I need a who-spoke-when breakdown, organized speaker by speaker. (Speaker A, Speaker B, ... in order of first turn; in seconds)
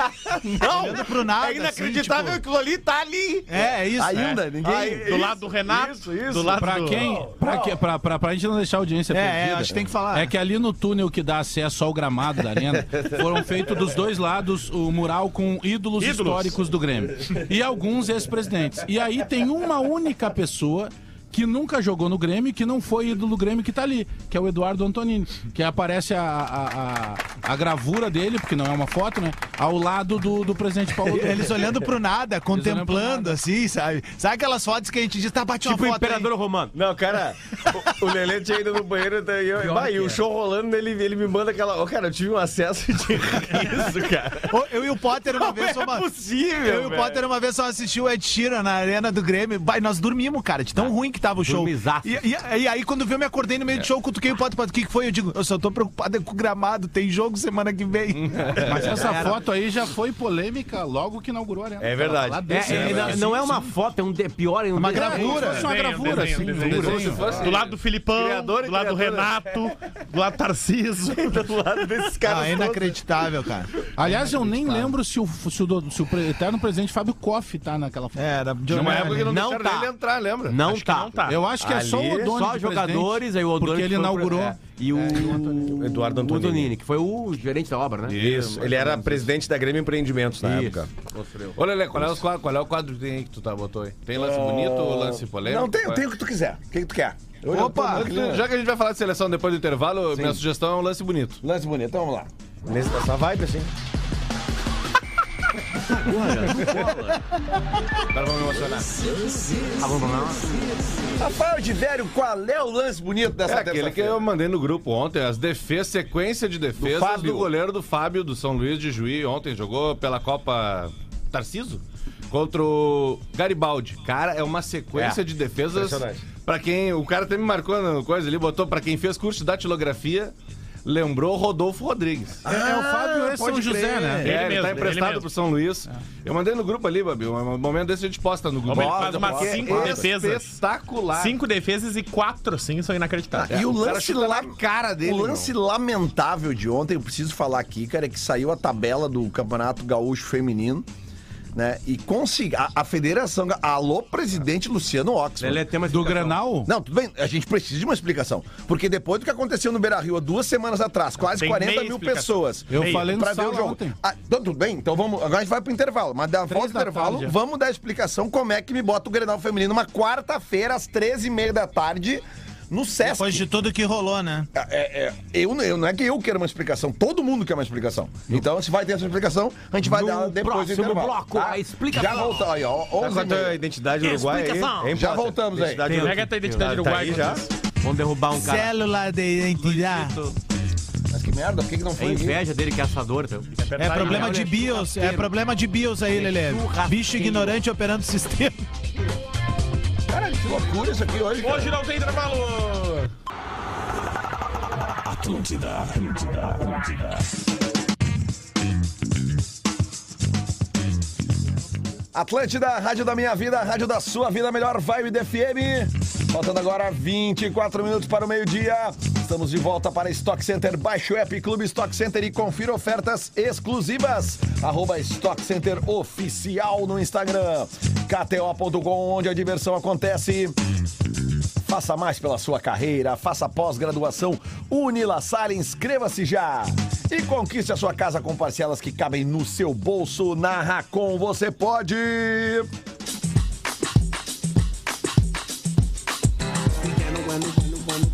Speaker A: 0.3-3.6, 4.6-7.4, 12.9-13.2, 36.7-44.5, 45.4-47.2, 61.8-63.3, 71.1-73.0, 81.6-82.3, 85.2-86.7, 88.1-90.9, 102.7-103.7, 124.9-126.2, 183.0-187.4
Speaker B: 0.6-2.4, 3.5-4.4, 9.1-10.3, 31.1-36.3, 44.5-46.1, 46.6-59.3, 64.8-65.7, 72.2-73.7, 78.2-79.4, 97.5-98.1, 173.0-174.5, 188.3-190.2, 193.8-198.6
Speaker C: 3.9-5.4, 94.2-98.4, 101.4-102.3, 111.2-114.2, 116.8-117.5, 132.4-134.3, 138.7-140.1, 143.3-150.9, 151.5-155.7, 156.6-173.5, 174.5-183.6, 184.9-185.8, 191.1-192.4, 200.1-201.7, 205.0-207.2, 212.1-230.6, 231.6-242.7
Speaker D: 4.9-7.3, 16.0-16.6, 65.2-71.6, 80.6-81.4, 134.2-135.2, 138.7-140.6, 141.1-143.6, 161.4-163.1, 185.9-187.5, 193.6-194.4, 201.4-203.1
Speaker E: 6.5-31.6, 32.5-33.3, 58.5-63.6, 64.9-67.3, 74.0-78.2, 81.3-84.6, 132.4-134.4, 155.9-156.7, 162.7-164.0, 166.5-167.3
Speaker F: 35.6-36.7, 39.6-40.2, 50.8-52.2, 62.5-65.6, 79.2-79.9, 80.4-81.3, 82.2-88.2, 90.4-90.8, 105.9-107.2, 109.8-110.8, 155.4-156.4, 179.8-182.5, 184.0-185.0, 185.8-186.8, 187.8-188.7, 192.0-195.3, 196.1-197.6, 247.0-247.9
Speaker G: 58.1-58.5, 66.5-69.3, 78.7-80.6, 88.0-89.3, 91.5-96.0, 97.7-101.4, 108.1-109.0, 113.5-130.3, 130.8-132.4, 134.2-141.4, 143.5-145.5